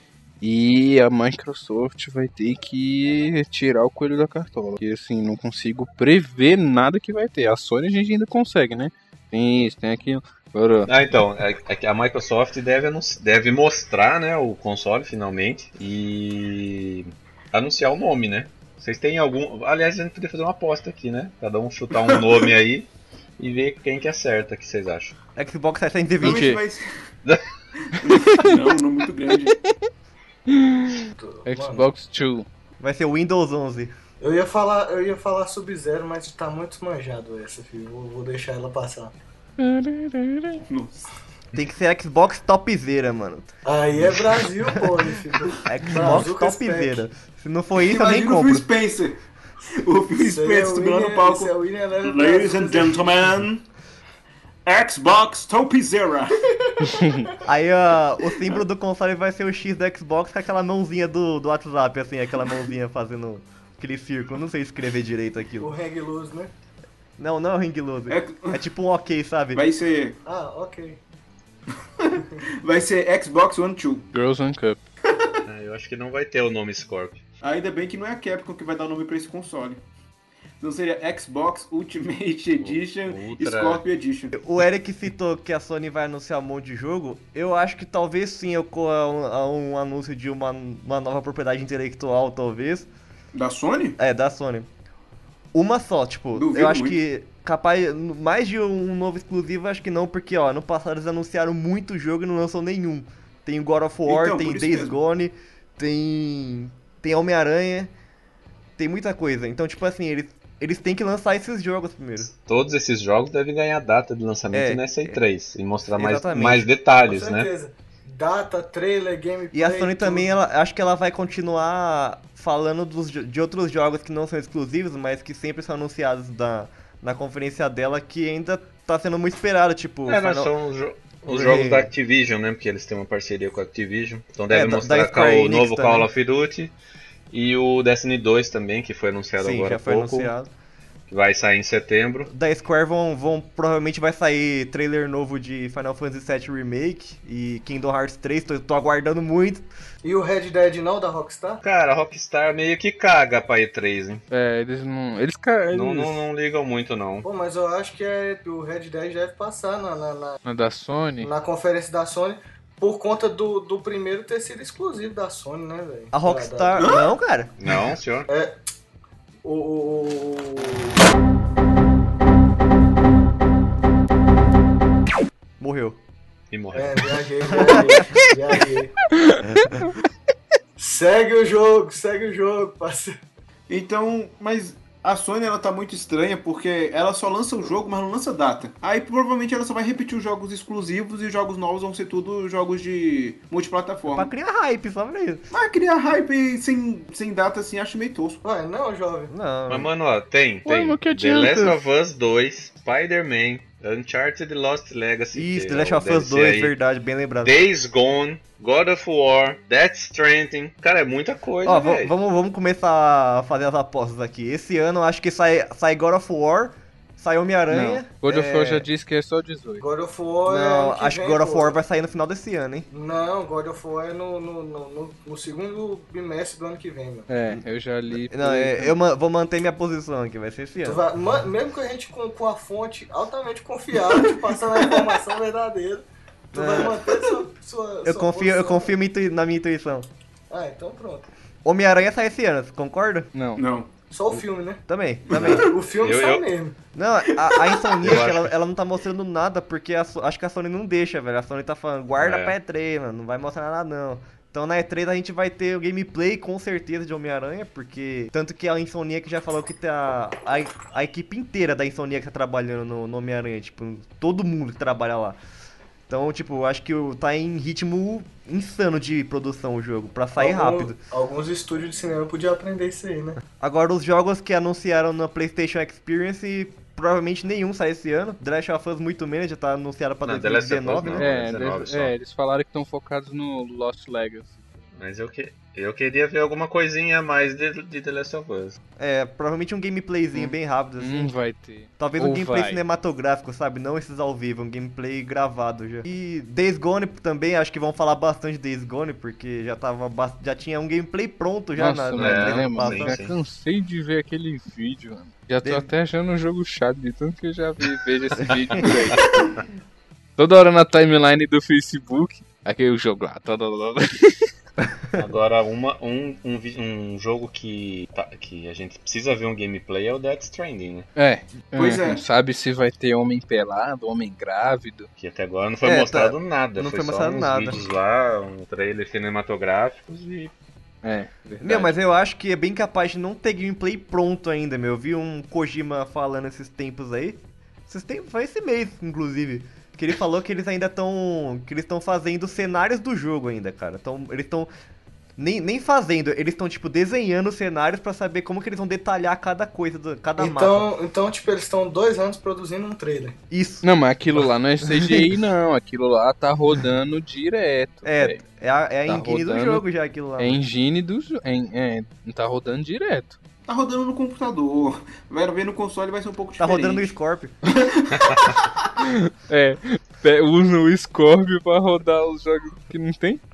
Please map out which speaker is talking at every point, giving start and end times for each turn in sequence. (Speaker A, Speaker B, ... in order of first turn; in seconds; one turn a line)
Speaker A: 0.4-10.9
Speaker B: 10.8-25.1
Speaker C: 25.4-26.5
Speaker D: 26.2-27.1
Speaker A: 26.2-26.6
Speaker D: 28.0-29.5
Speaker A: 30.5-32.5
Speaker E: 31.1-31.8
Speaker C: 32.8-33.9
Speaker E: 34.2-39.1
Speaker A: 39.6-40.6
Speaker D: 40.7-41.0
Speaker C: 41.5-43.5
Speaker E: 43.6-47.0
Speaker C: 45.6-48.7
Speaker D: 47.8-49.2
Speaker D: 49.7-53.6
Speaker E: 50.1-53.0
Speaker D: 54.6-56.4
Speaker C: 57.4-65.7
Speaker E: 65.6-66.5
Speaker C: 67.2-69.6
Speaker D: 68.1-68.6
Speaker D: 69.5-70.2
Speaker E: 70.2-71.0
Speaker D: 72.0-74.1
Speaker A: 74.1-74.8
Speaker B: 75.4-77.2
Speaker D: 77.4-79.8
Speaker D: 80.6-84.4
Speaker B: 82.6-83.8
Speaker C: 84.3-92.9
Speaker D: 93.3-94.0
Speaker C: 94.0-94.7
Speaker C: 95.5-107.9
Speaker D: 96.3-97.0
Speaker D: 104.0-105.0
Speaker C: 108.8-112.3
Speaker B: 112.3-117.5
Speaker C: 114.5-115.2
Speaker C: 116.0-116.7
Speaker E: 117.0-120.3
Speaker C: 119.5-130.5
Speaker B: 130.1-136.7
Speaker C: 131.3-131.9
Speaker C: 134.5-136.1
Speaker B: 137.3-140.3
Speaker C: 139.4-140.5
Speaker B: 141.1-142.3
Speaker C: 142.3-149.7
Speaker E: 150.0-151.6
Speaker B: 151.6-154.2
Speaker A: 154.3-156.2
Speaker B: 155.7-157.2
Speaker E: 157.2-160.4
Speaker A: 160.4-161.3
Speaker E: 161.2-166.8
Speaker C: 166.1-167.5
Speaker D: 166.8-167.1
Speaker B: 167.6-168.3
Speaker E: 168.3-168.5
Speaker E: 169.4-171.0
Speaker C: 175.6-176.0
Speaker B: 176.5-177.8
Speaker E: 176.7-178.9
Speaker C: 177.6-177.9
Speaker A: 179.2-179.9
Speaker E: 180.8-183.1
Speaker D: 183.7-194.3
Speaker C: 194.1-195.5
Speaker D: 195.5-198.4
Speaker E: 198.4-199.3
Speaker C: 199.3-199.9
Speaker B: 199.7-206.7
Speaker A: 200.6-201.8
Speaker C: 205.3-207.5
Speaker B: 207.4-212.1
Speaker C: 211.6-218.9
Speaker A: 217.7-219.8
Speaker E: 219.8-221.8
Speaker C: 220.5-222.9
Speaker E: 222.9-227.3
Speaker A: 227.3-228.9
Speaker C: 227.5-231.0
Speaker E: 230.8-238.9
Speaker C: 236.5-236.9
Speaker C: 238.0-240.1
Speaker E: 240.5-241.3
Speaker C: 241.6-243.3
Speaker A: 243.3-243.6
Speaker D: 243.6-243.9
Speaker E: 244.1-246.8
Speaker C: 244.9-245.6
Speaker D: 245.3-245.6
Speaker B: 245.3-246.4
Speaker C: 246.9-265.4
Speaker D: 247.5-248.1
Speaker B: 248.0-248.5
Speaker B: 252.2-252.5
Speaker C: 266.1-271.0
Speaker E: 270.4-273.4
Speaker C: 273.6-281.3
Speaker B: 280.2-282.1
Speaker A: 281.2-284.8
Speaker B: 284.9-288.8
Speaker C: 289.0-291.3
Speaker A: 290.3-292.8
Speaker C: 292.0-303.2
Speaker A: 301.8-309.3
Speaker B: 302.1-303.3
Speaker C: 305.6-305.9
Speaker A: 310.4-314.5
Speaker B: 315.1-321.1
Speaker A: 321.1-325.1
Speaker D: 321.7-322.2
Speaker B: 325.2-330.5
Speaker C: 325.8-327.8
Speaker A: 331.0-331.9
Speaker C: 331.6-344.7
Speaker C: 345.4-350.9
Speaker E: 350.4-353.4
Speaker C: 353.5-353.9
Speaker A: 353.8-358.4
Speaker C: 354.9-355.2
Speaker C: 358.0-360.6
Speaker A: 359.1-359.8
Speaker A: 360.4-363.4
Speaker D: 363.6-367.1
Speaker C: 366.6-367.5
Speaker D: 367.7-368.5
Speaker A: 369.0-373.4